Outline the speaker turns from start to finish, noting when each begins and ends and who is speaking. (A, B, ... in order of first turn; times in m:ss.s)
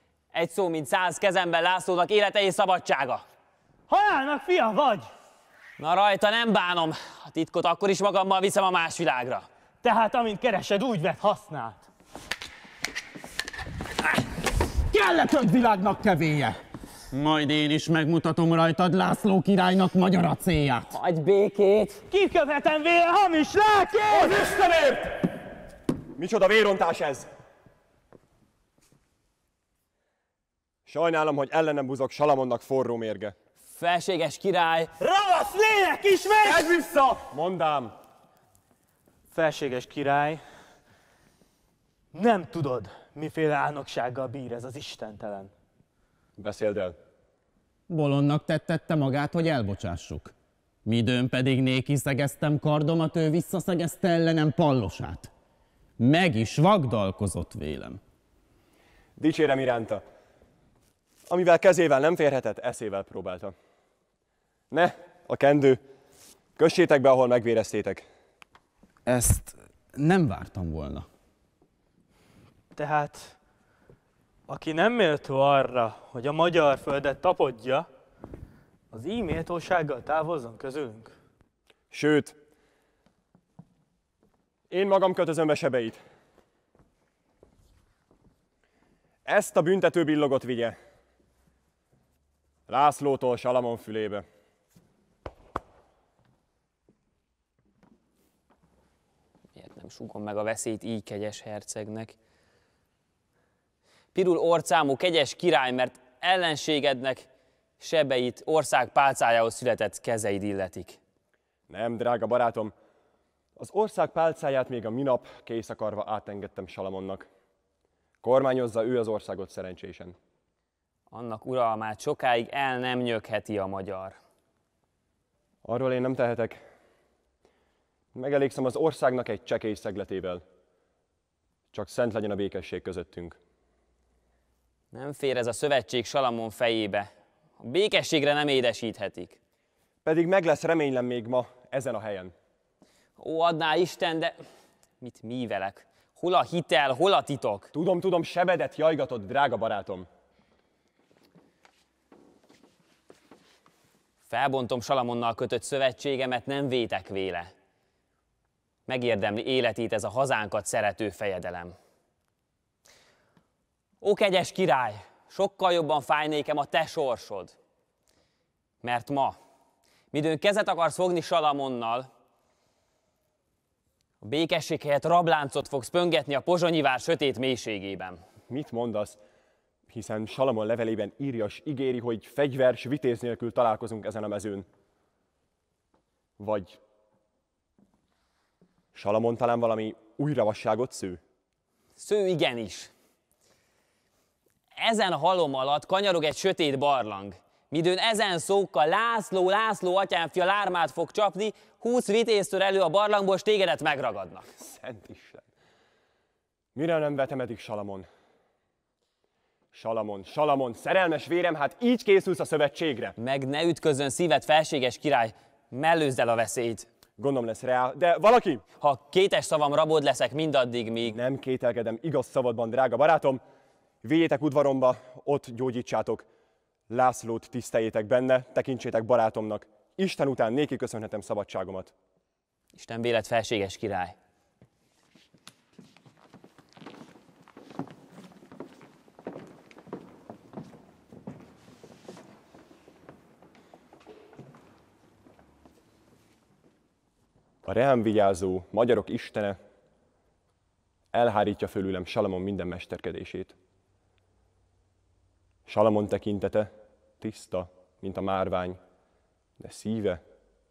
0:00.3-0:03.2 A
0:03.9-0:05.1 B
0:05.8-0:09.5 A
0:09.8-0:11.8 B
0:14.9-0:16.6 C
0:17.1-0:20.9 C
0:20.9-0:22.0 A
0:22.1-0:24.4 B
0:24.3-0:25.0 D
0:26.2-0:27.3 D
0:30.9-0:33.4 D
0:33.7-0:34.9 A
0:35.0-0:36.8 B
0:36.4-0:37.9 D
0:39.3-0:40.4 B
0:42.1-0:45.5 B
0:46.4-0:47.0 D
0:47.9-0:50.3 C
0:50.8-0:55.3 C
0:56.0-0:58.0 C
0:59.2-1:00.0 D
1:01.3-1:03.5 D
1:04.7-1:05.8 D
1:06.6-1:08.1 D
1:09.1-1:11.1 C
1:12.8-1:13.4 B
1:14.5-1:17.9 B
1:18.9-1:21.1 B
1:21.9-1:22.4 D
1:24.7-1:26.0 D
1:29.2-1:30.8 D
1:32.7-1:34.3 D
1:39.6-1:42.2 A
1:44.2-1:47.2 A
1:47.8-1:51.0 A
1:51.7-1:52.7 D
1:53.6-1:57.3 D
1:58.2-2:00.2 D
2:01.1-2:04.2 A
2:05.6-2:06.6 D
2:08.1-2:10.4 D
2:11.7-2:13.4 D
2:14.9-2:17.1 A
2:17.6-2:19.4 A
2:20.0-2:22.3 D
2:23.2-2:24.4 A
2:25.0-2:27.7 A
2:27.7-2:30.1 D
2:34.3-2:37.5 A
2:38.9-2:41.8 A
2:44.0-2:47.6 A
2:48.8-2:49.4 A
2:50.1-2:52.1 A
2:54.2-2:58.2 A
2:58.5-2:59.2 D
2:59.9-3:04.7 D
3:06.4-3:06.8 D
3:08.9-3:11.2 D
3:12.0-3:12.9 A
3:14.8-3:24.5 A
3:24.6-3:25.4 D
3:26.8-3:28.1 D
3:29.7-3:33.2 D
3:33.2-3:36.9 A
3:37.2-3:38.6 D
3:38.8-3:41.2 A
3:41.1-3:43.4 D
3:44.0-3:46.3 D
3:46.9-3:51.9 D
3:52.8-3:54.2 A
4:07.6-4:09.6 D
4:11.1-4:13.6 D
4:15.7-4:18.8 D
4:19.6-4:20.2 D